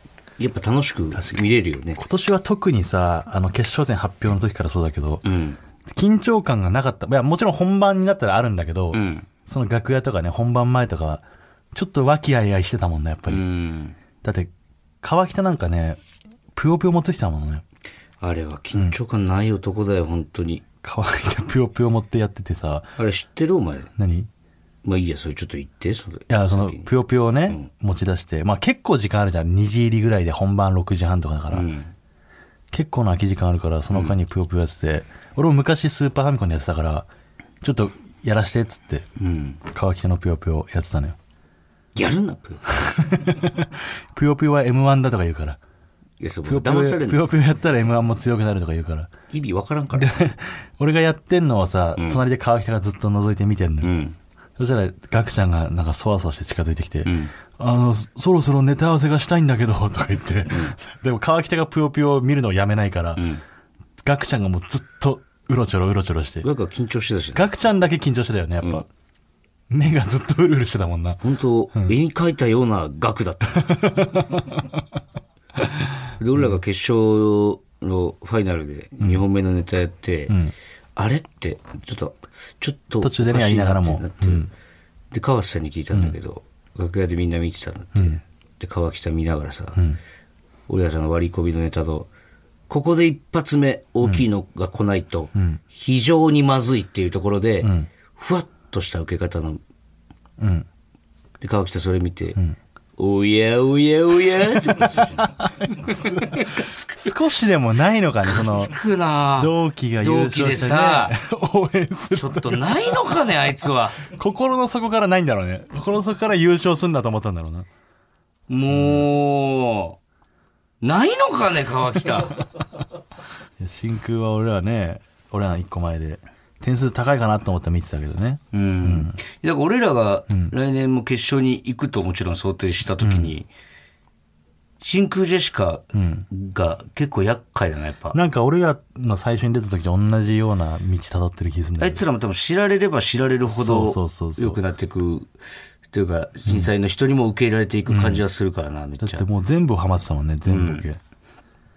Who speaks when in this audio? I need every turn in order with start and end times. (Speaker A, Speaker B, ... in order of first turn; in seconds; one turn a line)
Speaker A: 0.4-2.0
Speaker B: 1.1-1.4
Speaker B: 2.0-5.2
Speaker A: 5.2-5.6
Speaker B: 5.9-13.4
Speaker A: 8.9-9.3
Speaker A: 13.3-14.0
Speaker B: 14.2-14.5
Speaker B: 15.0-16.0
Speaker B: 16.5-17.6
Speaker A: 18.2-20.6
Speaker B: 20.8-22.9
Speaker A: 23.0-23.9
Speaker B: 24.0-24.3
Speaker A: 24.8-26.9
Speaker B: 26.3-31.7
Speaker A: 31.5-31.9
Speaker B: 32.7-37.1
Speaker B: 37.6-39.1
Speaker A: 39.2-39.6
Speaker B: 39.7-41.2
Speaker A: 42.0-42.7
Speaker B: 42.7-45.6
Speaker A: 46.2-47.2
Speaker B: 46.5-49.1
Speaker A: 49.3-50.1
Speaker B: 49.9-53.9
Speaker A: 52.0-52.2
Speaker A: 53.8-54.2
Speaker B: 54.6-63.3
Speaker A: 57.0-57.3
Speaker A: 60.5-60.8
Speaker A: 63.2-63.4
Speaker B: 64.0-66.5
Speaker A: 66.4-67.5
Speaker B: 67.3-68.9
Speaker B: 69.7-71.2
Speaker A: 71.2-73.8
Speaker B: 73.5-74.8
Speaker B: 75.6-75.9
Speaker A: 76.2-80.4
Speaker B: 79.0-79.2
Speaker A: 81.0-84.5
Speaker B: 83.0-84.5
Speaker A: 85.1-89.8
Speaker B: 88.0-88.2
Speaker A: 90.7-92.1
Speaker A: 92.7-99.6
Speaker B: 95.3-95.6
Speaker B: 97.6-97.9
Speaker B: 100.4-100.7
Speaker A: 101.4-102.4
Speaker A: 103.0-107.1
Speaker B: 105.7-108.8
Speaker A: 108.3-111.2
Speaker B: 109.4-113.0
Speaker A: 112.2-114.0
Speaker B: 114.0-117.7
Speaker A: 118.5-120.0
Speaker B: 118.7-119.1
Speaker A: 120.8-122.4
Speaker B: 123.6-129.2
Speaker A: 128.5-133.5
Speaker B: 133.0-133.3
Speaker A: 134.8-138.2
Speaker B: 135.9-136.3
Speaker B: 138.1-142.0
Speaker A: 141.8-145.3
Speaker B: 143.5-144.6
Speaker A: 145.9-149.3
Speaker B: 146.5-146.7
Speaker B: 147.9-148.2
Speaker B: 149.0-151.0
Speaker A: 150.5-150.8